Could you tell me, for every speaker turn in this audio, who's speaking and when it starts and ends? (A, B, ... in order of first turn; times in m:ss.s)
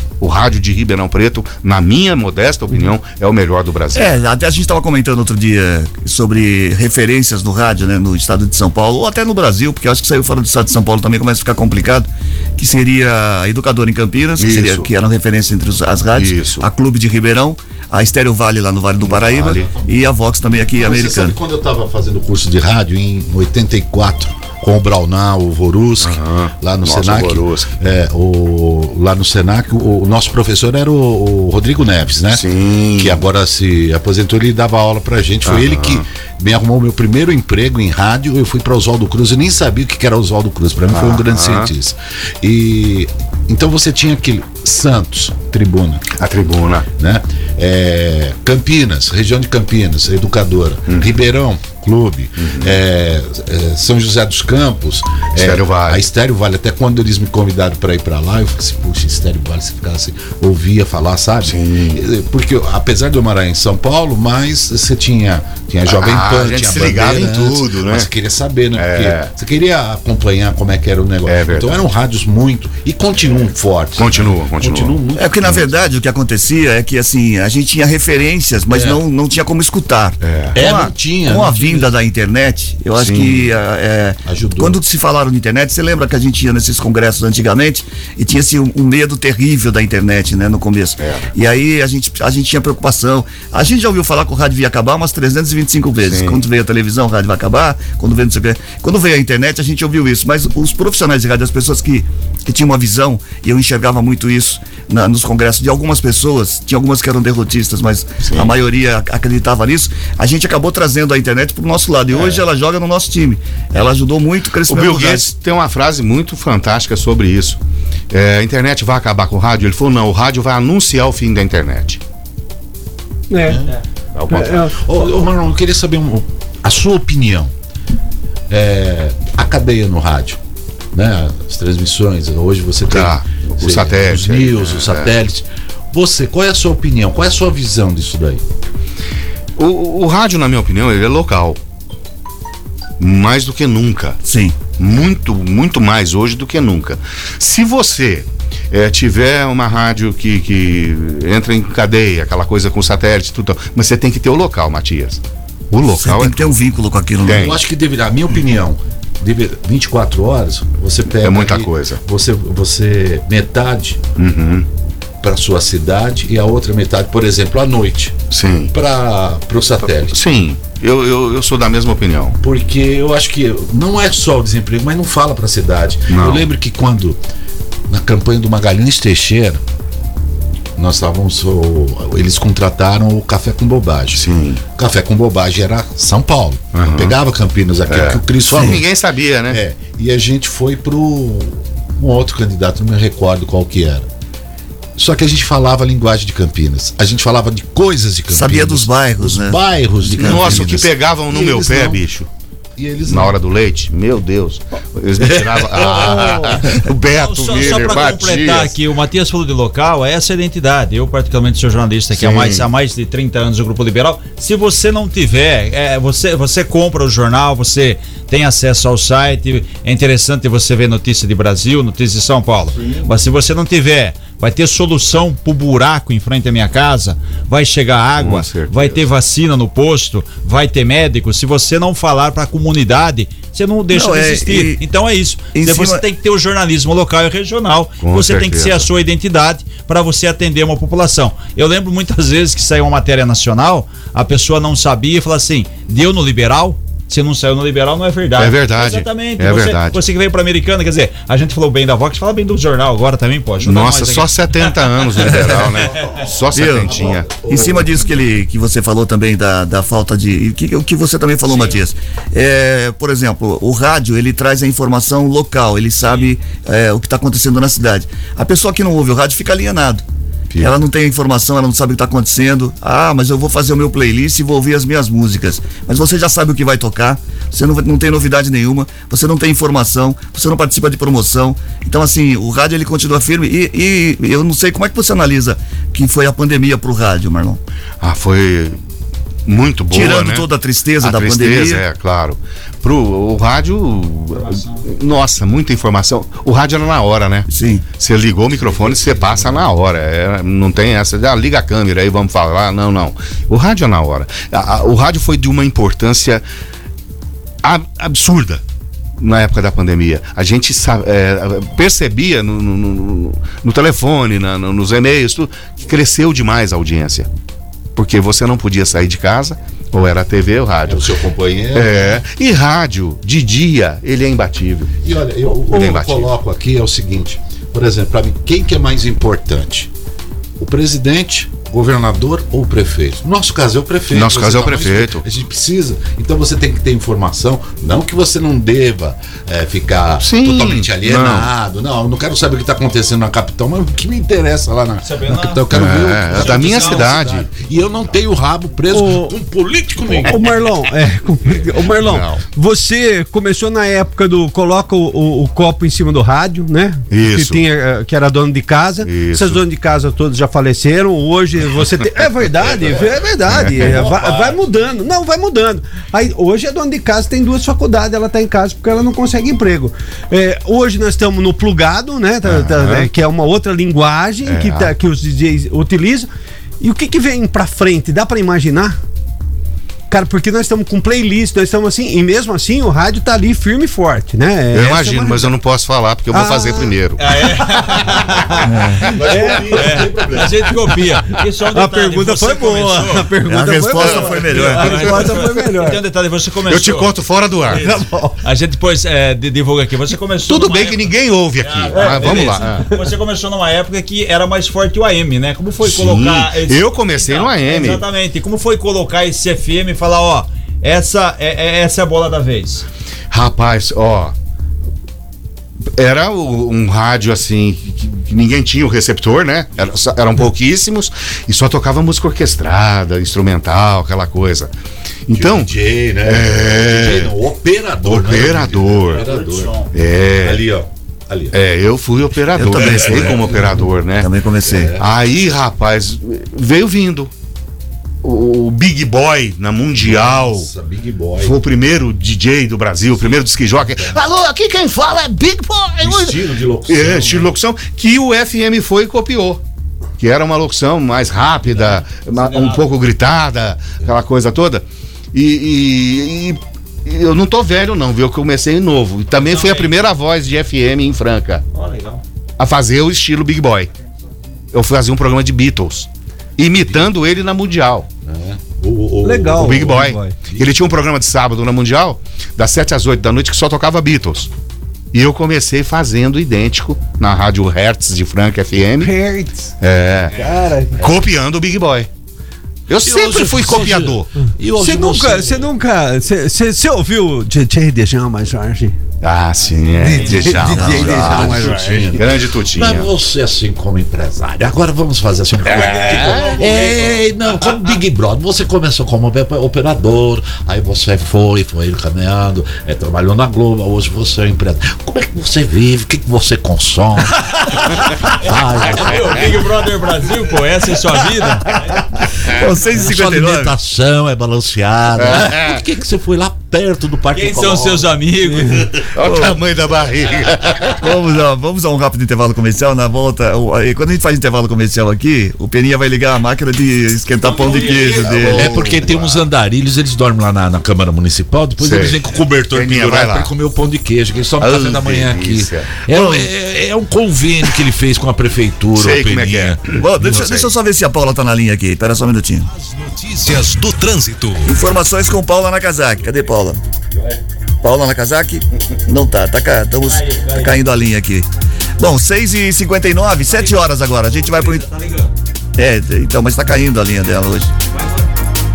0:00.2-0:04.2 A
0:03.9-0:21.4 B
0:14.4-0:14.9 A
0:16.1-0:16.6 A
0:19.0-0:19.7 A
0:19.4-0:19.9 C
0:20.7-0:46.1 C
0:26.0-0:27.7 A
0:32.3-0:33.2 A
0:35.4-0:36.0 A
0:40.9-0:41.7 A
0:46.2-0:46.9 A
0:47.0-1:15.6 C
0:52.4-0:52.8 A
0:55.4-0:56.1 A
1:01.4-1:02.0 A
1:05.9-1:08.1 A
1:08.8-1:09.3 A
1:11.3-1:11.8 A
1:14.0-1:15.0 A
1:15.1-1:55.2 B
1:18.7-1:19.0 A
1:20.2-1:20.6 A
1:20.5-1:21.9 C
1:23.0-1:23.5 A
1:24.3-1:24.8 C
1:31.0-1:31.3 A
1:36.0-1:36.4 A
1:48.2-1:48.5 A
1:52.1-1:52.4 A
1:54.7-1:57.6 A
1:58.1-2:02.0 A
2:03.3-2:03.6 D
2:04.1-2:04.7 A
2:04.3-2:04.8 D
2:04.8-2:07.5 C
2:08.5-2:10.4 C
2:10.9-2:18.4 C
2:12.9-2:15.1 A
2:19.6-2:21.6 A
2:23.0-2:24.2 A
2:24.2-2:24.6 B
2:24.8-2:36.4 A
2:35.9-2:37.6 B
2:37.2-2:37.6 A
2:37.3-2:44.0 C
2:41.2-2:42.0 A
2:44.2-2:44.6 A
2:45.2-2:48.1 C
2:48.3-2:48.7 A
2:48.7-2:50.2 C
2:50.1-2:52.4 A
2:52.4-2:57.2 C
2:56.1-2:56.5 A
2:57.9-2:59.6 C
3:00.8-3:08.8 C
3:04.1-3:04.6 A
3:06.7-3:07.2 A
3:07.9-3:09.6 A
3:08.5-3:08.8 B
3:09.5-3:14.1 C
3:15.0-3:22.0 C
3:18.3-3:20.6 B
3:20.2-3:22.3 A
3:22.8-3:23.4 C
3:23.1-3:28.7 A
3:25.2-3:26.8 C
3:26.0-3:26.6 D
3:27.2-4:14.7 E
3:32.1-3:32.7 A
3:48.2-3:49.0 A
3:53.9-3:54.8 B
3:55.5-3:56.0 B
3:58.0-3:58.9 A
4:08.4-4:10.0 A
4:13.6-4:17.3 A
4:15.9-4:16.2 E
4:16.5-4:30.0 B
4:16.5-4:18.1 C
4:30.6-4:47.6 B
4:48.0-4:48.8 A
4:49.5-4:50.5 A
4:49.9-4:51.8 B
4:51.0-5:06.4 A
4:54.3-4:54.8 E
4:57.5-4:57.8 B
4:58.6-4:59.7 C
5:07.6-5:08.6 A
5:09.2-5:17.3 A
5:18.0-5:21.1 A
5:20.9-5:22.2 C
5:21.7-5:24.9 A
5:25.0-5:29.9 C
5:25.6-5:26.3 A
5:30.6-5:50.5 C
5:34.1-5:35.2 A
5:40.2-5:41.5 A
5:45.0-5:45.6 E
5:45.7-5:47.5 A
5:46.3-5:47.1 E
5:48.9-5:49.3 D
5:50.1-5:50.4 A
5:50.3-6:16.3 D
5:51.6-5:52.4 A
5:57.1-5:57.6 A
5:59.0-5:59.6 A
6:03.5-6:04.0 A
6:03.7-6:04.6 C
6:12.4-6:13.1 A
6:14.4-6:14.9 A
6:16.8-6:19.0 D
6:20.1-6:25.5 D
6:24.7-6:27.2 A
6:26.3-6:26.9 D
6:27.2-6:28.7 E
6:28.0-6:30.0 D
6:28.6-6:29.0 B
6:28.9-6:30.9 C
6:29.6-6:33.3 E
6:31.7-6:36.0 D
6:33.4-6:35.1 B
6:34.0-6:35.0 A
6:34.5-6:37.1 E
6:36.7-6:37.8 A
6:37.7-6:41.1 E
6:37.8-6:38.4 D
6:40.5-6:42.9 A
6:41.6-6:52.8 E
6:41.9-6:42.9 D
6:45.8-6:48.0 A
6:53.3-6:54.3 A
6:56.0-7:04.7 A
7:05.3-7:05.7 A
7:05.3-7:11.6 C
7:06.2-7:07.3 A
7:08.0-7:09.2 A
7:09.1-7:09.9 E
7:09.9-7:10.6 A
7:11.5-7:14.3 A
7:12.5-7:13.6 B
7:12.7-7:13.8 C
7:14.2-7:14.9 B
7:14.6-7:15.1 C
7:15.0-7:17.3 A
7:18.2-7:20.7 A
7:20.0-7:21.6 C
7:21.4-7:29.6 A
7:23.2-7:24.2 C
7:26.0-7:27.5 C
7:30.2-7:41.6 A
7:31.7-7:32.9 E
7:39.3-7:39.9 E
7:41.7-7:42.2 E
7:42.6-7:43.9 A
7:44.7-7:48.1 A
7:48.2-7:50.7 C
7:49.2-7:50.4 D
7:49.6-7:54.5 A
7:55.1-7:59.1 A
7:59.0-7:59.7 D
7:59.8-8:00.4 A
8:00.4-8:01.1 D
8:01.0-8:02.1 A
8:02.9-8:04.3 A
8:03.0-8:05.6 C
8:04.8-8:08.9 D
8:09.2-8:13.1 A
8:10.0-8:12.0 D
8:10.1-8:10.5 E
8:10.4-8:27.7 C
8:10.7-8:11.3 B
8:15.7-8:17.2 A
8:15.8-8:16.3 D
8:27.6-8:32.0 E
8:28.2-8:29.5 C
8:32.4-8:33.7 B
8:32.9-8:38.2 C
8:35.2-8:35.8 A
8:37.3-8:38.9 E
8:38.5-8:38.9 D
8:39.1-8:41.0 A
8:39.2-8:39.6 B
8:41.0-8:48.9 B
8:47.4-8:48.4 E
8:47.8-8:49.4 A
8:48.2-8:59.8 C
8:51.8-8:52.2 A
8:52.7-8:53.5 A
8:54.6-8:55.9 A
8:56.1-8:56.5 B
8:58.9-9:00.7 A
8:59.9-9:02.7 B
9:02.7-9:04.7 F
9:04.6-9:06.8 B
9:07.8-9:11.5 B
9:10.0-9:10.8 E
9:12.0-9:14.9 B
9:13.4-9:15.3 E
9:15.8-9:17.7 B
9:17.9-9:18.3 E